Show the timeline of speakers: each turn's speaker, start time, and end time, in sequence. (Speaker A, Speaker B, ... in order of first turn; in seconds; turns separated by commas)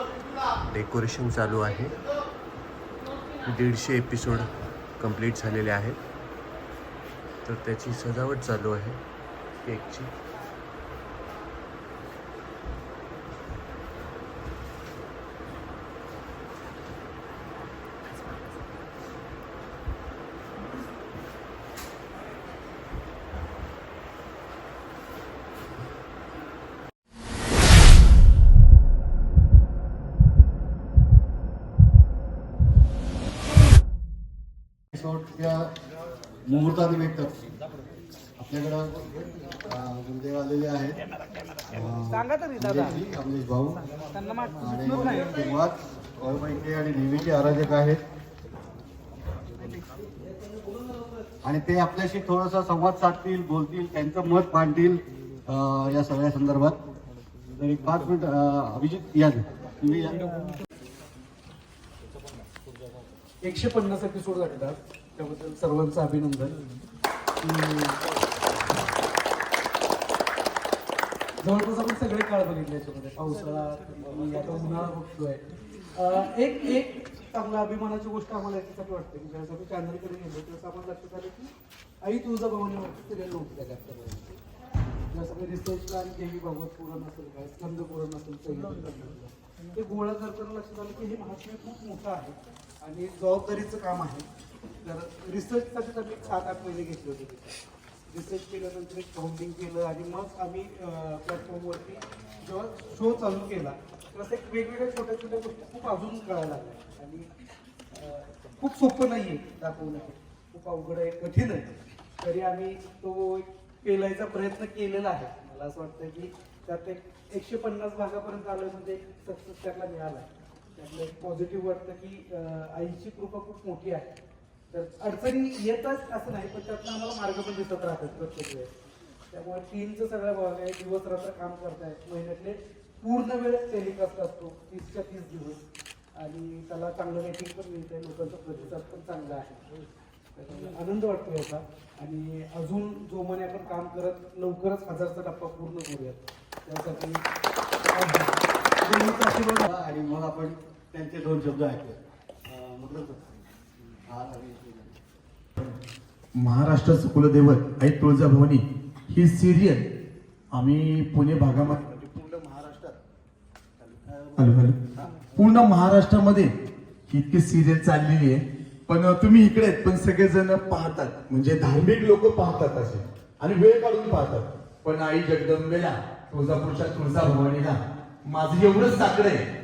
Speaker A: 0.7-2.0, Speaker A: 3.4-6.0, Speaker A: 7.4-9.0, Speaker A: 9.6-10.1, Speaker B: 34.9-35.7, Speaker B: 36.5-37.4, Speaker B: 38.4-39.0, Speaker B: 39.6-41.0, Speaker B: 41.7-43.8, Speaker C: 42.0-43.0, Speaker C: 44.0-45.4, Speaker B: 44.6-48.0, Speaker B: 51.4-56.8, Speaker B: 57.5-60.3, Speaker C: 63.4-66.5, Speaker C: 67.4-68.0, Speaker C: 71.4-84.4, Speaker C: 85.1-94.3, Speaker C: 94.8-97.6, Speaker C: 98.1-107.3, Speaker C: 107.9-124.1, Speaker C: 124.7-128.7, Speaker C: 129.3-135.6, Speaker C: 136.2-139.8, Speaker C: 140.3-147.2, Speaker C: 147.9-149.7, Speaker B: 149.6-153.2, Speaker B: 154.1-155.0, Speaker D: 156.4-159.8, Speaker D: 160.5-163.0, Speaker D: 163.8-166.5, Speaker D: 167.1-179.5